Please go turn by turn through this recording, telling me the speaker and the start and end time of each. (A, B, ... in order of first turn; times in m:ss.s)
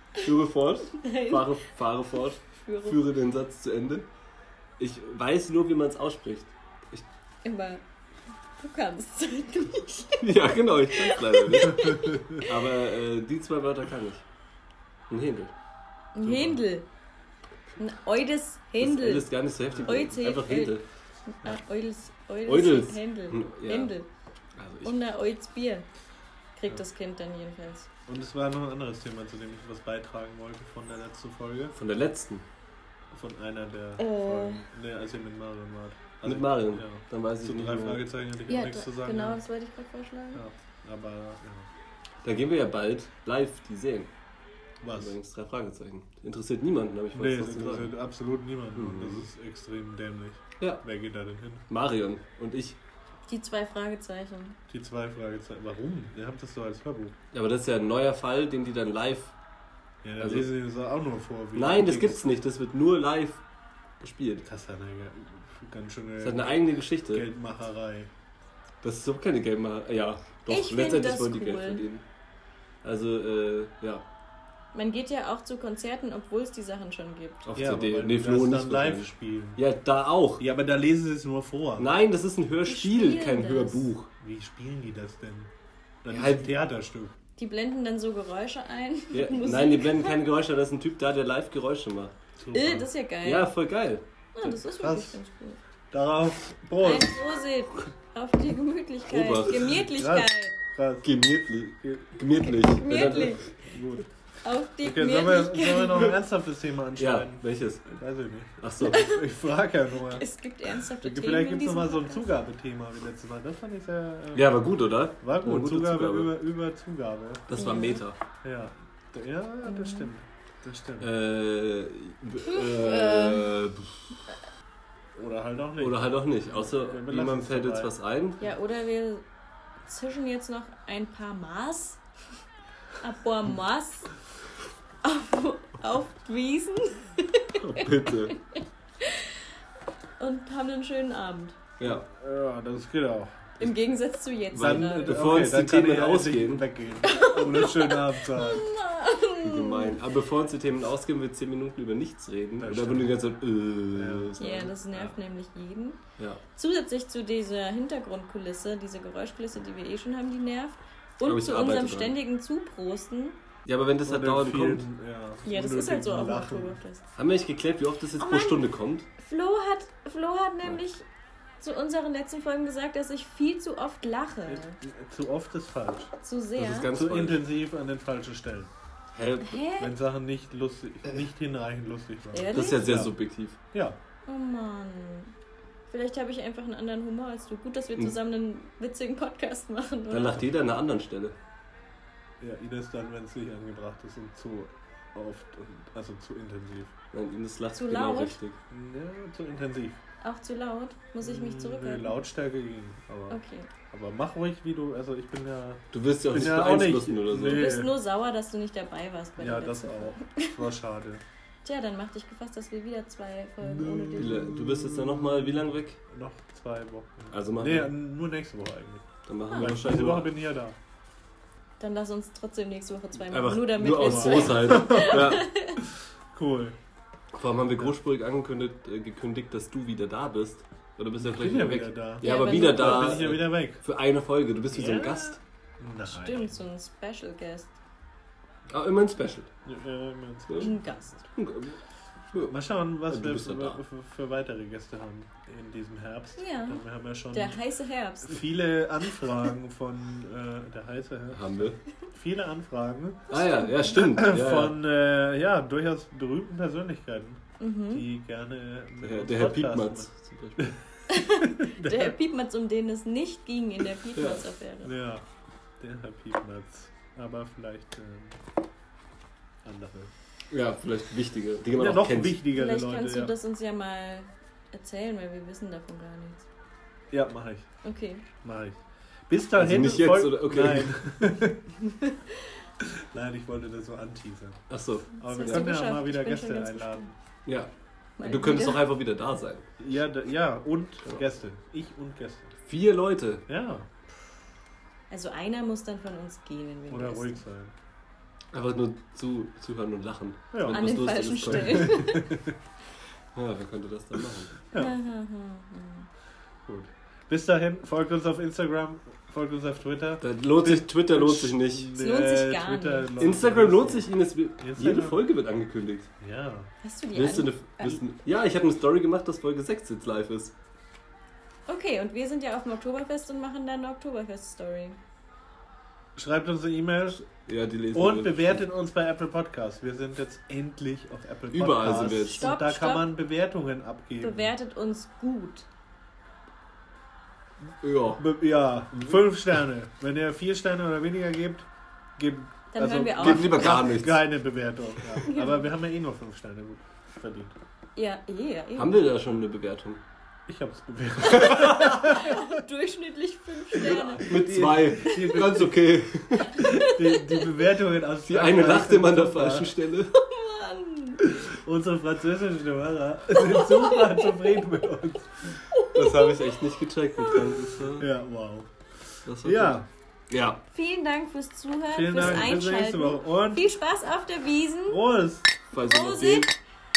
0:00.2-0:04.1 A
0:00.9-0:01.6 B
0:02.6-0:03.0 B
0:04.8-0:07.0 A
0:07.4-0:07.8 B
0:08.6-0:12.5 B
0:10.2-0:14.2 A
0:15.1-0:15.5 A
0:16.2-0:16.9 B
0:16.2-0:16.5 A
0:17.8-0:24.1 B
0:18.8-0:20.8 A
0:19.7-0:20.1 C
0:22.5-0:23.9 A
0:24.6-0:25.0 A
0:24.8-0:25.9 B
0:26.6-0:27.9 B
0:28.1-0:31.8 C
0:31.8-0:32.4 A
0:33.1-0:39.4 C
0:34.0-0:34.6 B
0:36.2-0:38.0 A
0:38.5-0:40.4 B
0:40.4-0:41.7 C
0:42.2-0:44.1 A
0:44.8-0:45.1 C
0:44.9-0:47.9 A
0:47.1-0:51.7 C
0:48.8-0:49.3 A
0:51.7-0:52.8 A
0:53.3-0:54.6 B
0:54.7-0:57.2 C
0:57.3-0:59.3 A
1:00.0-1:02.3 C
1:00.2-1:00.5 A
1:01.6-1:03.4 A
1:04.0-1:04.4 A
1:04.4-1:08.1 C
1:06.2-1:07.3 A
1:08.8-1:12.0 A
1:10.5-1:11.8 B
1:12.8-1:14.0 A
1:14.7-1:17.5 B
1:17.5-1:20.4 A
1:17.6-1:19.6 C
1:20.4-1:21.9 C
1:21.8-1:24.1 A
1:22.6-1:23.8 B
1:24.2-1:25.5 C
1:26.0-1:27.2 C
1:26.1-1:26.6 A
1:27.4-1:30.2 B
1:29.1-1:32.1 A
1:32.4-1:32.9 C
1:32.5-1:33.5 B
1:33.2-1:34.1 A
1:34.3-1:35.6 B
1:34.4-1:35.2 C
1:35.9-1:37.2 C
1:36.8-1:40.6 B
1:39.1-1:39.7 A
1:39.8-1:41.1 C
1:41.0-1:43.5 A
1:42.4-1:43.5 B
1:43.6-1:44.1 C
1:44.4-1:46.1 B
1:44.8-1:50.3 C
1:47.0-1:47.9 A
1:48.6-1:49.1 A
1:48.8-1:49.2 B
1:50.0-1:52.3 B
1:51.0-1:54.6 C
1:54.4-1:56.3 A
1:55.2-1:57.5 C
1:57.5-1:58.2 A
1:57.6-1:58.0 B
1:58.4-2:01.1 C
1:59.6-2:00.1 B
2:01.0-2:04.1 A
2:02.5-2:03.5 B
2:05.2-2:07.9 C
2:05.8-2:08.4 A
2:08.4-2:09.2 B
2:09.9-2:12.0 B
2:13.0-2:14.1 B
2:15.0-2:19.4 B
2:17.6-2:18.4 A
2:20.2-2:21.6 B
2:21.8-2:22.1 A
2:21.8-2:23.7 C
2:23.6-2:25.3 B
2:24.5-2:26.7 A
2:24.5-2:28.7 C
2:27.0-2:30.0 B
2:29.4-2:34.7 A
2:32.6-2:33.2 C
2:33.9-2:34.4 C
2:34.4-2:36.0 B
2:36.6-2:43.4 B
2:41.2-2:42.2 A
2:43.7-2:44.9 A
2:44.0-2:46.8 C
2:45.4-2:47.1 B
2:47.2-2:49.1 A
2:48.2-2:51.0 B
2:51.6-2:54.8 B
2:54.5-2:56.1 C
2:56.2-2:56.9 B
2:56.6-2:57.5 A
2:56.7-2:58.7 C
2:59.1-2:59.6 A
2:59.4-2:59.9 B
2:59.8-3:03.1 C
3:02.3-3:02.9 B
3:02.5-3:03.6 A
3:03.7-3:04.0 C
3:04.3-3:05.3 B
3:05.9-3:10.4 B
3:10.1-3:11.4 A
3:12.4-3:17.0 C
3:17.1-3:18.6 A
3:17.8-3:18.4 B
3:18.7-3:20.0 C
3:20.2-3:22.2 B
3:21.2-3:28.0 C
3:23.3-3:23.7 B
3:25.9-3:27.8 A
3:27.4-3:30.6 B
3:29.4-3:31.2 C
3:31.6-3:34.5 B
3:33.6-3:40.8 C
3:34.2-3:36.0 A
3:37.3-3:37.9 A
3:39.3-3:40.3 A
3:41.8-3:45.8 B
3:43.3-3:45.5 A
3:44.0-3:45.4 C
3:46.3-3:46.8 C
3:47.3-3:55.4 A
3:51.2-3:53.8 C
3:52.2-3:53.3 B
3:54.7-3:56.6 C
3:56.1-3:57.7 B
3:58.7-3:59.5 A
3:59.6-4:01.0 C
4:00.5-4:00.7 A
4:00.6-4:01.2 B
4:01.4-4:01.8 A
4:02.3-4:03.8 A
4:02.4-4:07.6 C
4:06.4-4:06.8 B
4:07.3-4:08.5 B
4:08.2-4:22.2 C
4:11.3-4:11.8 A
4:13.3-4:14.8 A
4:13.3-4:14.0 B
4:17.6-4:18.1 B
4:19.0-4:20.7 A
4:21.1-4:24.9 B
4:24.2-4:24.4 A
4:24.8-4:25.2 C
4:25.8-4:28.4 C
4:29.6-4:30.1 C
4:30.5-4:32.4 A
4:31.8-4:33.3 C
4:32.5-4:36.5 B
4:37.1-4:37.7 C
4:37.8-4:38.2 B
4:38.4-4:38.8 C
4:39.3-4:41.7 C
4:39.6-4:41.0 A
4:42.0-4:42.4 B
4:42.8-4:44.6 C
4:44.7-4:45.7 A
4:45.2-4:47.1 C
4:45.2-4:47.1 B
4:48.2-4:48.9 B
4:48.2-4:49.6 A
4:49.8-4:52.6 C
4:52.7-4:53.4 A
4:53.5-4:53.9 C
4:55.1-4:57.4 B
4:56.9-4:57.7 C
4:58.5-5:02.1 A
5:00.5-5:02.6 C
5:00.7-5:02.4 B
5:03.4-5:04.6 A
5:04.8-5:06.1 B
5:06.7-5:15.2 C
5:10.2-5:11.9 A
5:11.9-5:13.2 B
5:13.2-5:16.1 A
5:16.2-5:16.7 C
5:16.8-5:18.0 B
5:17.2-5:20.5 A
5:21.7-5:25.0 B
5:26.2-5:27.3 C
5:27.4-5:28.6 A
5:27.9-5:34.5 C
5:31.5-5:32.5 A
5:32.3-5:33.1 B
5:34.2-5:35.7 B
5:37.8-5:38.2 A
5:38.2-5:41.7 C
5:42.2-5:47.5 C
5:42.7-5:43.7 B
5:42.8-5:44.2 A
5:45.2-5:45.6 B
5:48.0-5:49.0 B
5:48.8-5:50.0 A
5:50.5-5:52.6 C
5:51.3-5:51.7 A
5:51.6-5:55.4 B
5:53.8-5:56.7 A
5:53.9-5:55.9 C
5:56.5-5:57.5 B
5:56.6-5:59.8 C
5:58.3-6:00.1 A
6:00.1-6:01.3 B
6:01.2-6:05.6 C
6:03.4-6:04.5 B
6:05.7-6:07.6 B
6:05.9-6:08.1 A
6:08.0-6:08.7 C
6:09.3-6:10.6 A
6:09.4-6:09.9 C
6:10.7-6:15.0 B
6:11.9-6:13.7 C
6:14.9-6:15.5 C
6:15.7-6:16.5 A
6:15.8-6:16.5 B